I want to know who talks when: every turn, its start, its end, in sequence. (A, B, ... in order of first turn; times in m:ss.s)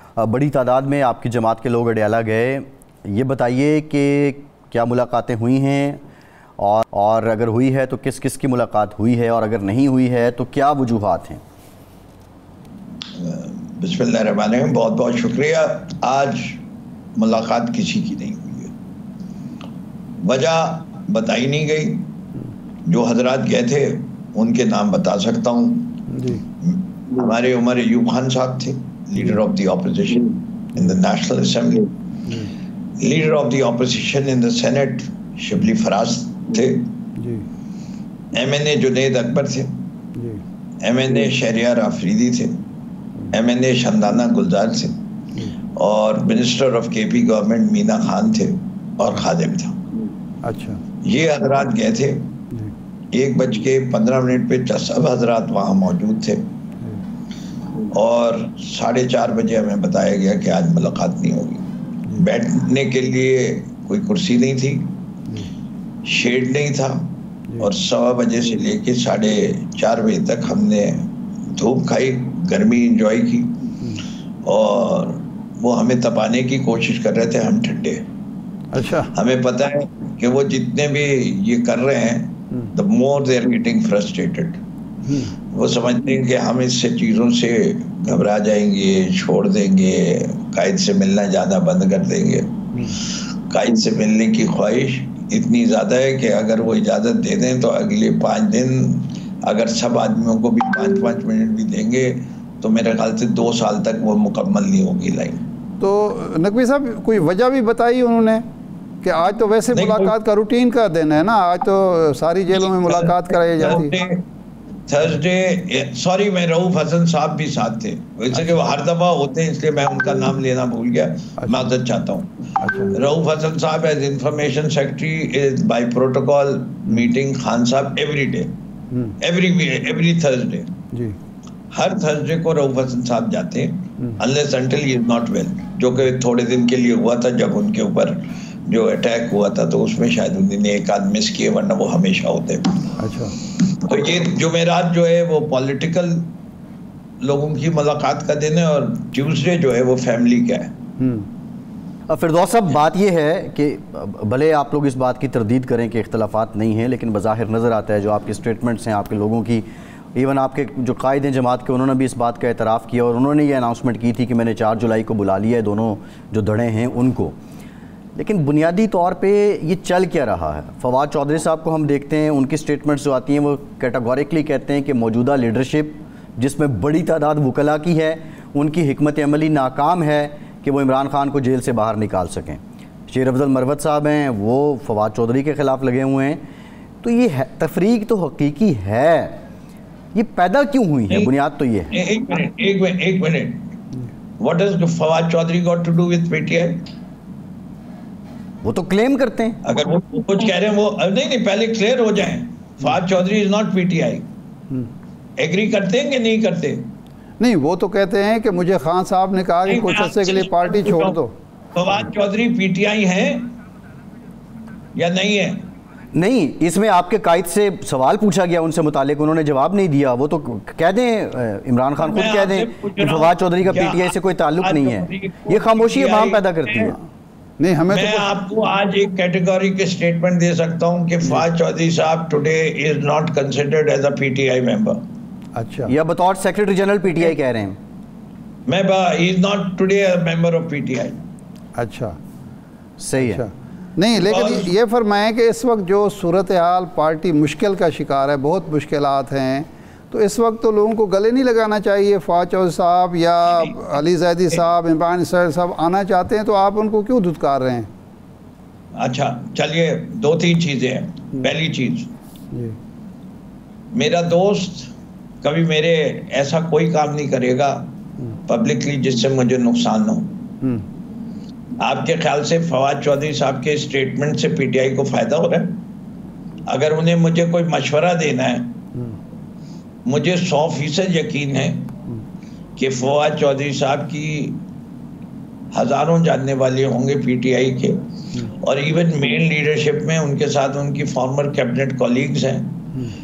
0:00.2-0:06.0 A
0:06.6-0:11.4 A
0:13.2-0:16.6 B
0:17.2-0:18.7 B
0:20.2-0:22.1 B
0:22.9-0:26.0 B
0:26.1-0:26.4 C
0:26.6-0:31.9 B
0:32.3-0:32.5 C
0:33.0-0:36.9 B
0:37.2-0:37.4 C
0:38.3-0:39.7 B
0:40.1-0:40.4 C
0:40.8-0:42.6 B
0:43.3-0:44.9 B
0:45.7-0:49.8 B
0:50.4-0:50.8 C
0:51.0-0:52.3 B
0:53.1-0:56.4 B
0:57.9-1:01.6 B
1:02.2-1:04.9 B
1:06.0-1:13.5 B
1:14.4-1:18.0 B
1:18.7-1:19.1 C
1:19.1-1:24.6 B
1:25.0-1:25.3 C
1:25.5-1:45.4 B
1:45.8-1:48.4 C
1:49.0-1:54.0 C
1:49.7-1:50.1 B
1:52.8-1:54.2 B
1:54.9-2:02.3 B
2:01.4-2:01.7 C
2:02.6-2:03.0 C
2:02.9-2:08.5 B
2:06.9-2:07.1 C
2:08.9-2:09.2 C
2:09.2-2:10.7 B
2:10.9-2:11.2 C
2:11.7-2:22.9 B
2:23.0-2:23.4 C
2:23.5-2:26.3 B
2:27.2-2:30.7 B
2:31.0-2:31.3 C
2:32.1-2:39.6 A
2:40.2-2:47.3 A
2:48.2-3:06.4 A
3:07.0-3:09.4 A
3:10.1-3:11.9 A
3:11.9-3:13.7 B
3:14.4-3:16.8 B
3:18.6-3:19.6 A
3:19.6-3:24.2 B
3:25.4-3:26.9 B
3:27.4-3:31.3 C
3:29.7-3:31.2 B
3:31.7-3:33.5 B
3:35.0-3:35.6 B
3:36.1-3:47.0 A
3:42.0-3:46.9 B
3:47.6-3:48.3 C
3:47.9-3:55.0 B
3:55.5-3:55.9 C
3:55.9-3:57.8 A
3:58.7-4:01.2 B
4:01.7-4:02.2 C
4:03.0-4:03.4 A
4:03.1-4:17.9 C
4:04.2-4:04.7 B
4:13.4-4:14.0 B
4:19.0-4:22.1 B
4:22.5-4:22.8 C
4:23.9-4:24.9 B
4:25.4-4:27.9 B
4:28.5-4:30.4 B
4:31.8-4:35.8 B
4:36.7-4:38.8 B
4:40.0-4:41.9 B
4:42.8-4:44.6 B
4:45.7-4:52.9 B